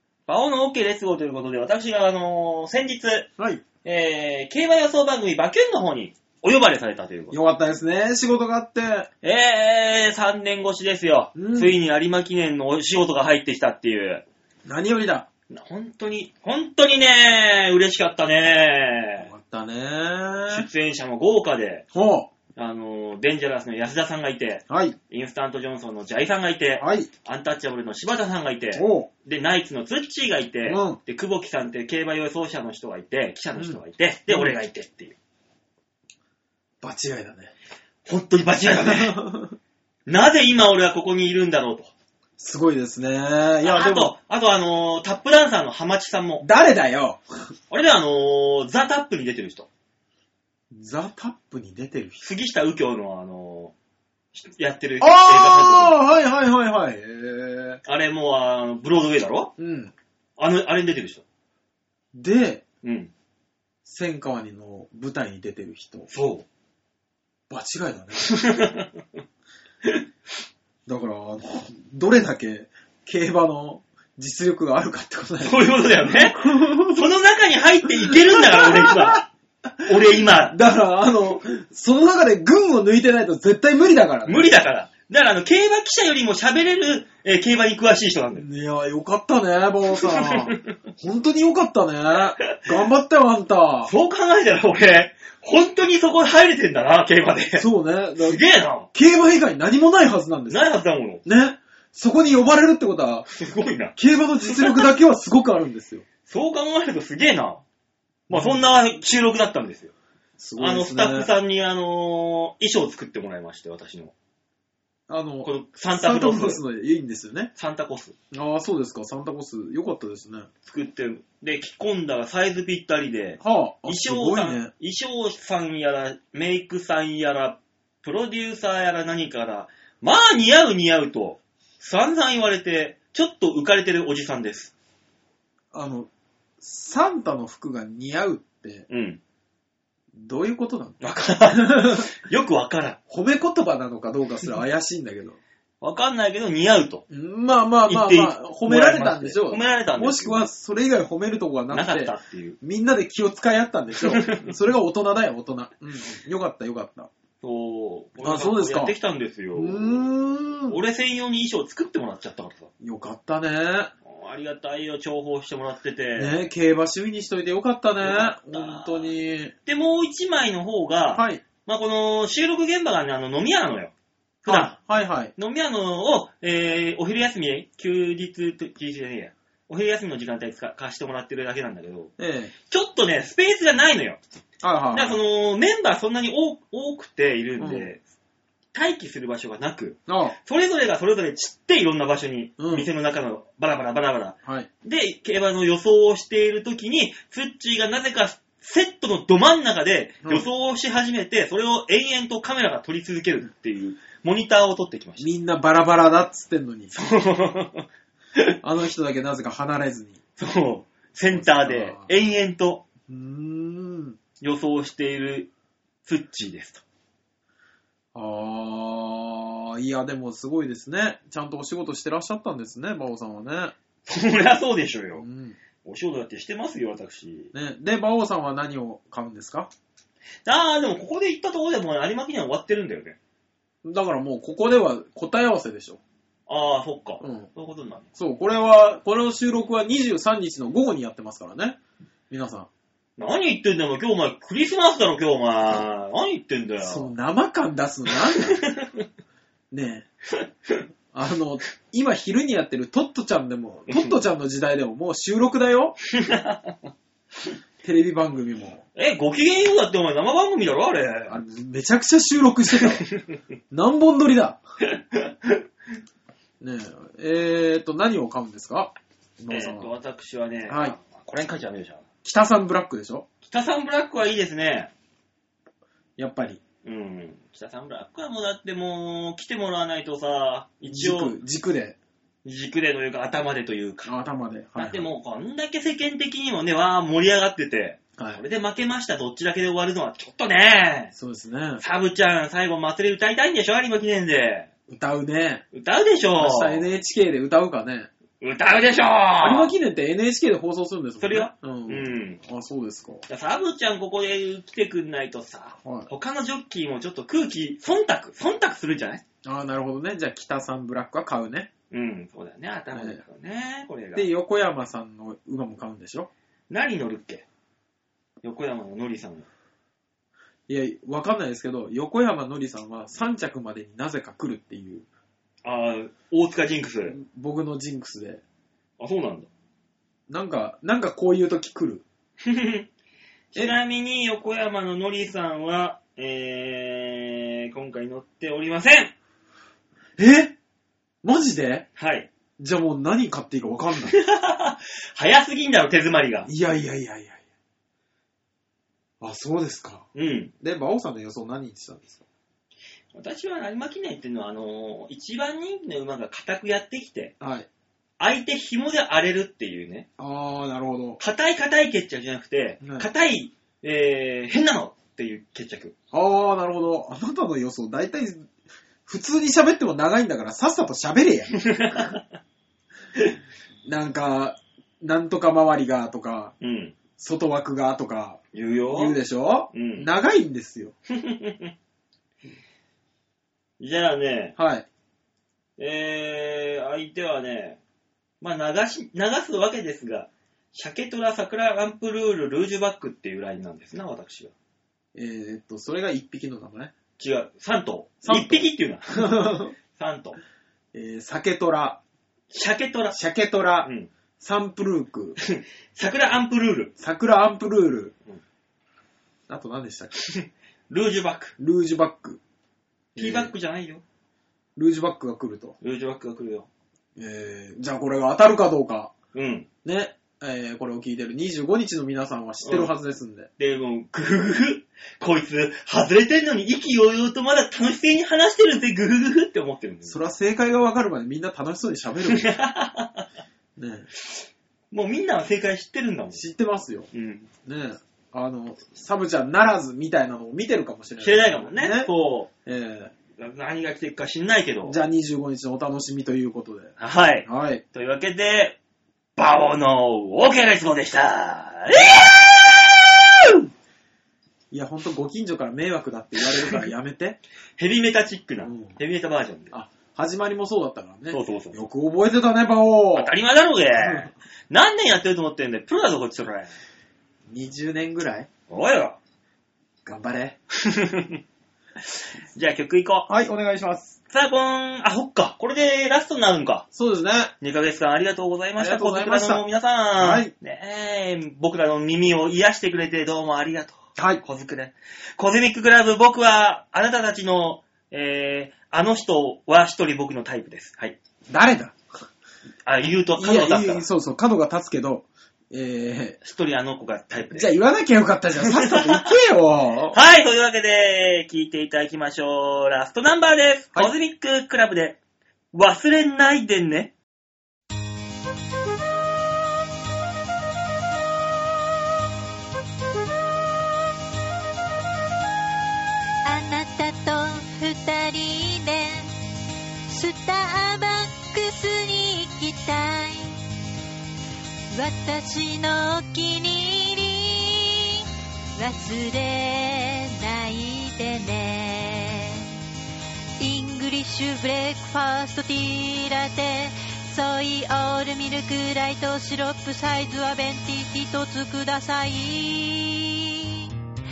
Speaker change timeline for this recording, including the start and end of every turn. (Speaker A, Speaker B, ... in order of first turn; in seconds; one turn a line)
Speaker A: 0.3-3.3
Speaker B: 3.4-3.6
Speaker A: 3.8-7.4
Speaker B: 7.3-9.1
Speaker A: 9.2-14.2
Speaker B: 11.3-11.8
Speaker B: 14.7-15.3
Speaker A: 15.5-19.3
Speaker B: 19.2-20.6
Speaker A: 20.5-21.8
Speaker B: 21.9-22.3
Speaker A: 22.6-35.1
Speaker B: 24.7-25.0
Speaker B: 26.8-27.1
Speaker B: 28.7-29.1
Speaker B: 30.6-31.0
Speaker B: 33.5-34.6
Speaker B: 36.8-37.5
Speaker A: 38.0-39.2
Speaker B: 38.7-39.5
Speaker A: 40.1-41.9
Speaker B: 42.4-44.1
Speaker A: 43.6-46.5
Speaker B: 46.4-47.2
Speaker A: 47.7-49.7
Speaker B: 50.7-52.2
Speaker A: 52.2-53.7
Speaker A: 54.3-56.0
Speaker B: 55.0-57.8
Speaker A: 57.8-59.5
Speaker B: 59.6-59.9
Speaker A: 60.4-61.2
Speaker B: 62.1-62.6
Speaker A: 62.8-63.1
Speaker B: 63.8-66.1
Speaker A: 66.1-66.5
Speaker B: 67.5-68.3
Speaker A: 68.2-69.0
Speaker B: 70.8-77.1
Speaker A: 75.4-79.2
Speaker B: 78.0-84.5
Speaker A: 79.8-80.6
Speaker A: 84.2-88.4
Speaker B: 88.3-93.9
Speaker A: 90.0-90.6
Speaker A: 93.8-97.7
Speaker B: 97.6-98.4
Speaker A: 98.2-98.9
Speaker B: 98.9-100.7
Speaker A: 100.5-101.2
Speaker B: 101.2-103.3
Speaker A: 103.3-104.9
Speaker B: 104.0-106.0
Speaker A: 106.3-107.6
Speaker B: 108.3-108.6
Speaker A: 108.3-109.9
Speaker B: 110.4-111.3
Speaker A: 110.6-114.1
Speaker B: 115.1-117.5
Speaker A: 115.4-116.6
Speaker A: 117.5-118.1
Speaker B: 118.3-120.5
Speaker A: 120.6-134.7
Speaker B: 123.4-124.7
Speaker B: 135.7-136.1
Speaker B: 136.6-138.8
Speaker A: 138.9-139.2
Speaker B: 140.2-142.1
Speaker A: 141.0-143.0
Speaker B: 143.1-145.4
Speaker A: 145.8-147.0
Speaker B: 147.1-157.1
Speaker A: 147.9-150.4
Speaker A: 151.7-152.6
Speaker A: 154.0-154.5
Speaker A: 157.4-160.1
Speaker B: 158.2-158.9
Speaker B: 159.5-160.8
Speaker A: 160.7-162.7
Speaker B: 162.8-163.9
Speaker A: 164.0-166.4
Speaker B: 166.2-169.5
Speaker A: 168.0-169.1
Speaker A: 169.7-173.9
Speaker B: 171.1-171.4
Speaker A: 174.4-174.8
Speaker B: 174.4-175.3
Speaker A: 175.3-182.1
Speaker B: 182.2-182.5
Speaker A: 182.7-184.2
Speaker B: 184.6-185.2
Speaker A: 184.9-188.0
Speaker B: 187.6-187.9
Speaker A: 188.7-205.3
Speaker B: 190.1-190.3
Speaker B: 192.6-192.9
Speaker B: 205.2-206.9
Speaker A: 206.9-207.8
Speaker B: 208.6-210.2
Speaker A: 210.4-212.8
Speaker B: 211.3-212.1
Speaker B: 213.1-214.2
Speaker A: 214.4-215.5
Speaker A: 216.0-216.8
Speaker B: 218.1-223.7
Speaker A: 224.1-225.2
Speaker B: 225.2-225.6
Speaker A: 225.8-227.5
Speaker B: 227.5-229.7
Speaker A: 230.4-233.2
Speaker B: 233.8-236.0
Speaker A: 236.5-238.1
Speaker B: 237.2-237.5
Speaker B: 238.2-241.8
Speaker B: 242.3-242.7
Speaker A: 243.2-247.1
Speaker B: 246.8-248.7
Speaker A: 248.4-249.0
Speaker B: 249.7-250.1
Speaker B: 251.1-256.0
Speaker A: 256.1-256.8
Speaker B: 257.8-258.8
Speaker A: 258.9-261.4
Speaker B: 261.3-263.0
Speaker A: 262.8-263.3
Speaker B: 263.7-264.6
Speaker A: 264.9-265.6
Speaker B: 266.6-269.9
Speaker A: 269.5-272.0
Speaker B: 270.7-271.0
Speaker B: 272.2-273.2
Speaker A: 273.4-274.9
Speaker B: 276.2-276.6
Speaker A: 276.8-281.3
Speaker B: 280.9-282.0
Speaker A: 282.4-284.1
Speaker B: 284.0-285.1
Speaker A: 284.8-291.1
Speaker B: 291.1-291.8
Speaker A: 291.8-294.7
Speaker B: 294.9-295.6
Speaker A: 295.7-296.9
Speaker B: 296.4-298.1
Speaker A: 298.4-299.7
Speaker B: 299.4-303.2
Speaker A: 301.2-302.4
Speaker A: 303.3-309.2
Speaker B: 305.8-306.1
Speaker B: 309.4-311.7
Speaker A: 311.9-314.3
Speaker B: 312.9-313.2
Speaker B: 314.1-316.3
Speaker A: 316.7-317.4
Speaker A: 318.4-319.5
Speaker B: 320.7-325.1
Speaker A: 325.6-327.1
Speaker B: 327.1-328.4
Speaker A: 329.0-329.5
Speaker B: 330.3-332.0
Speaker A: 332.4-332.9
Speaker A: 333.5-339.1
Speaker B: 340.2-340.5
Speaker B: 341.2-341.9
Speaker A: 342.0-342.3
Speaker B: 342.6-344.1
Speaker A: 344.1-346.5
Speaker B: 346.4-347.4
Speaker B: 349.2-350.1
Speaker A: 350.1-350.5
Speaker B: 350.6-352.2
Speaker A: 353.1-357.3
Speaker B: 357.4-357.7
Speaker A: 358.2-360.1
Speaker B: 360.2-361.2
Speaker A: 361.2-365.9
Speaker B: 362.8-363.1
Speaker B: 366.1-368.5
Speaker B: 369.1-372.1
Speaker A: 371.6-372.2
Speaker B: 373.8-376.5
Speaker A: 376.6-376.9
Speaker B: 377.2-378.4
Speaker A: 378.5-379.2
Speaker B: 378.9-380.9
Speaker A: 379.7-380.1
Speaker A: 381.1-381.7
Speaker A: 383.8-384.5
Speaker B: 384.6-384.9
Speaker A: 385.8-387.8
Speaker A: 388.4-394.5
Speaker B: 395.1-396.9
Speaker A: 397.2-400.4
Speaker B: 398.2-399.7
Speaker B: 400.9-402.0
Speaker A: 402.5-403.2
Speaker B: 403.1-405.4
Speaker A: 403.8-404.1
Speaker A: 405.4-406.9
Speaker B: 407.0-408.1
Speaker B: 409.5-410.1
Speaker A: 410.3-411.5
Speaker B: 411.6-412.4
Speaker B: 413.1-413.5
Speaker A: 413.2-414.0
Speaker B: 414.8-415.8
Speaker A: 415.8-416.7
Speaker B: 417.1-419.1
Speaker A: 419.3-419.7
Speaker B: 419.8-423.5
Speaker A: 422.6-422.9
Speaker A: 423.6-430.2
Speaker B: 430.1-432.5
Speaker A: 432.3-433.2
Speaker B: 433.8-434.1
Speaker A: 434.9-436.4
Speaker B: 436.3-437.1
Speaker A: 437.1-437.5
Speaker B: 437.6-442.1
Speaker A: 441.2-442.5
Speaker B: 442.6-443.1
Speaker A: 443.4-445.0
Speaker B: 444.8-446.9
Speaker A: 447.0-448.8
Speaker B: 447.4-447.8
Speaker A: 449.4-453.5
Speaker B: 454.7-457.4
Speaker A: 457.8-459.7
Speaker B: 458.6-459.0
Speaker B: 459.7-463.3
Speaker A: 461.3-461.8
Speaker A: 463.1-466.7
Speaker B: 463.9-464.3
Speaker B: 467.5-468.5
Speaker A: 468.7-469.2
Speaker B: 470.0-470.6
Speaker A: 470.8-471.4
Speaker A: 472.1-473.3
Speaker B: 473.3-474.1
Speaker A: 474.3-476.9
Speaker B: 476.9-477.5
Speaker A: 477.6-491.2
Speaker B: 478.8-479.6
Speaker B: 480.1-480.5
Speaker B: 484.1-484.4
Speaker B: 491.5-491.9
Speaker A: 492.9-494.1
Speaker B: 493.4-496.4
Speaker A: 496.4-497.7
Speaker B: 497.5-500.2
Speaker A: 498.6-499.3
Speaker A: 500.1-505.2
Speaker A: 505.7-507.1
Speaker C: 516.4-519.3
Speaker C: 520.1-523.6
Speaker C: 524.9-528.2
Speaker C: 528.8-532.7
Speaker C: 533.6-543.9